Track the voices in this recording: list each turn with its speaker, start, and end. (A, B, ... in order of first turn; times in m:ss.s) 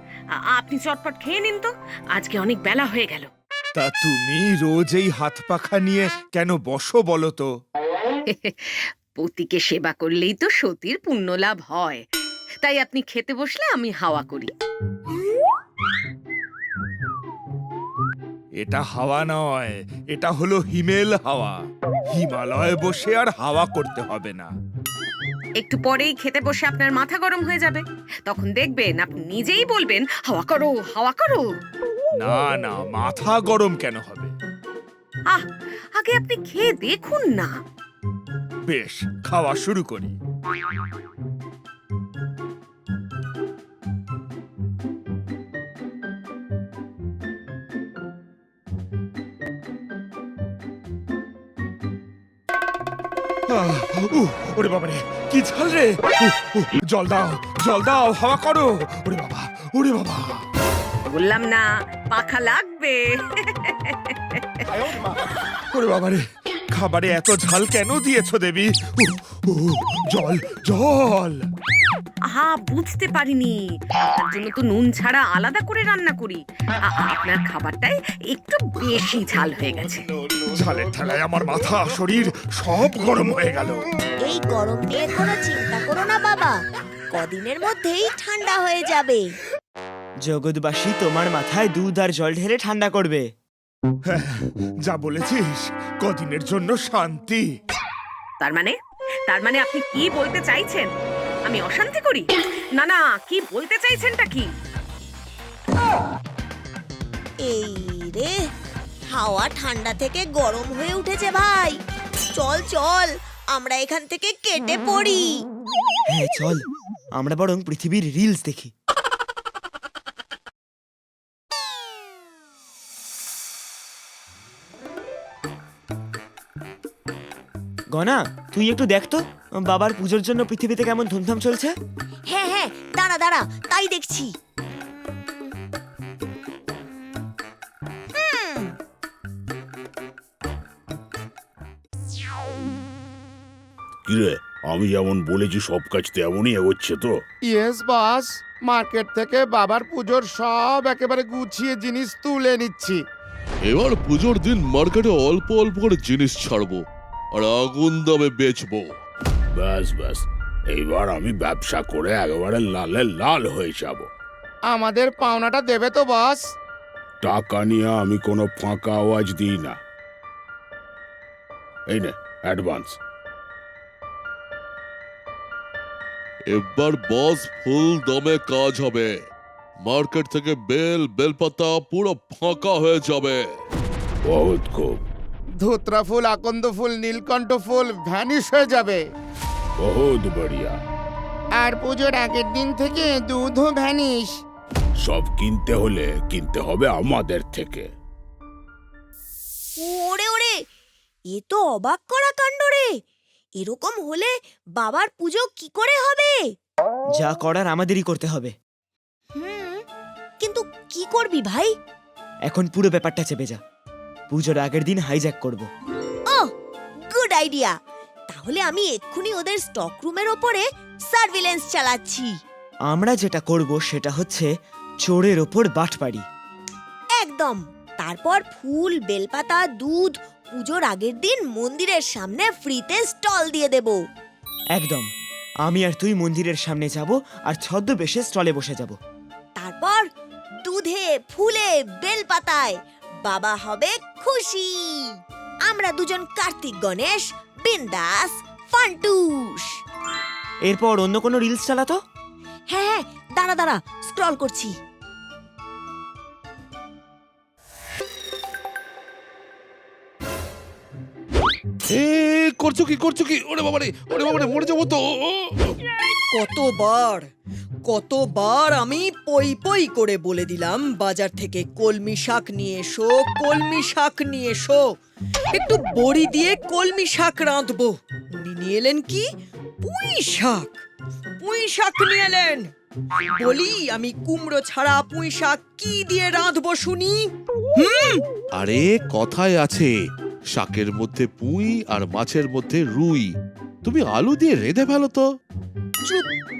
0:00.5-0:03.3 A
0:03.7-0:07.5 B
0:08.3-0:12.0 A
0:12.6-0:14.5 A
0:18.6-0:24.5 B
0:25.6-0:31.5 A
0:32.1-0:34.3 B
0:35.3-0:37.6 A
0:38.7-0:40.1 B
0:53.5-1:00.4 B
1:01.0-1:04.6 A
1:05.7-1:11.4 B
1:12.3-1:20.0 A
1:20.5-1:23.8 B
1:24.2-1:26.6 C
1:27.1-1:29.3 C
1:30.2-1:33.2 D
1:34.0-1:37.5 B
1:38.4-1:38.7 A
1:39.3-1:40.9 A
1:41.4-1:44.5 A
1:47.4-1:48.4 C
1:49.1-1:51.8 C
1:52.3-1:55.3 C
1:56.1-1:56.6 D
1:57.2-1:58.7 D
2:07.9-2:11.7 D
2:12.3-2:14.3 C
2:18.1-2:18.8 C
2:24.0-2:27.2 E
2:27.5-2:33.0 F
2:33.6-2:38.8 G
2:39.5-2:44.1 E
2:44.7-2:46.4 F
2:47.2-2:49.8 E
2:51.9-2:53.0 E
2:56.5-2:59.1 G
2:59.8-3:03.4 G
3:04.3-3:05.0 E
3:05.6-3:09.0 F
3:09.8-3:10.8 E
3:11.6-3:14.3 F
3:15.0-3:17.9 E
3:19.8-3:20.6 C
3:21.3-3:22.9 C
3:23.6-3:26.4 C
3:27.1-3:28.5 D
3:29.4-3:29.8 C
3:30.4-3:31.7 C
3:32.5-3:33.6 D
3:34.3-3:35.7 D
3:37.1-3:37.7 C
3:38.3-3:42.3 C
3:42.9-3:44.5 D
3:45.0-3:46.2 D
3:47.2-3:54.0 C
3:54.7-3:55.1 D
3:55.6-3:59.0 D
3:59.6-4:00.0 C
4:00.6-4:05.1 C
4:05.6-4:09.7 C
4:10.7-4:12.0 D
4:12.7-4:14.7 C
4:21.9-4:25.8 G
4:26.3-4:27.3 H
4:27.8-4:34.8 H
4:35.5-4:39.3 H
4:39.8-4:40.8 H
4:41.4-4:42.7 H
4:43.3-4:48.2 H
4:48.6-4:49.9 G
4:50.5-4:53.3 G
4:53.8-4:55.2 G
4:56.0-4:56.3 H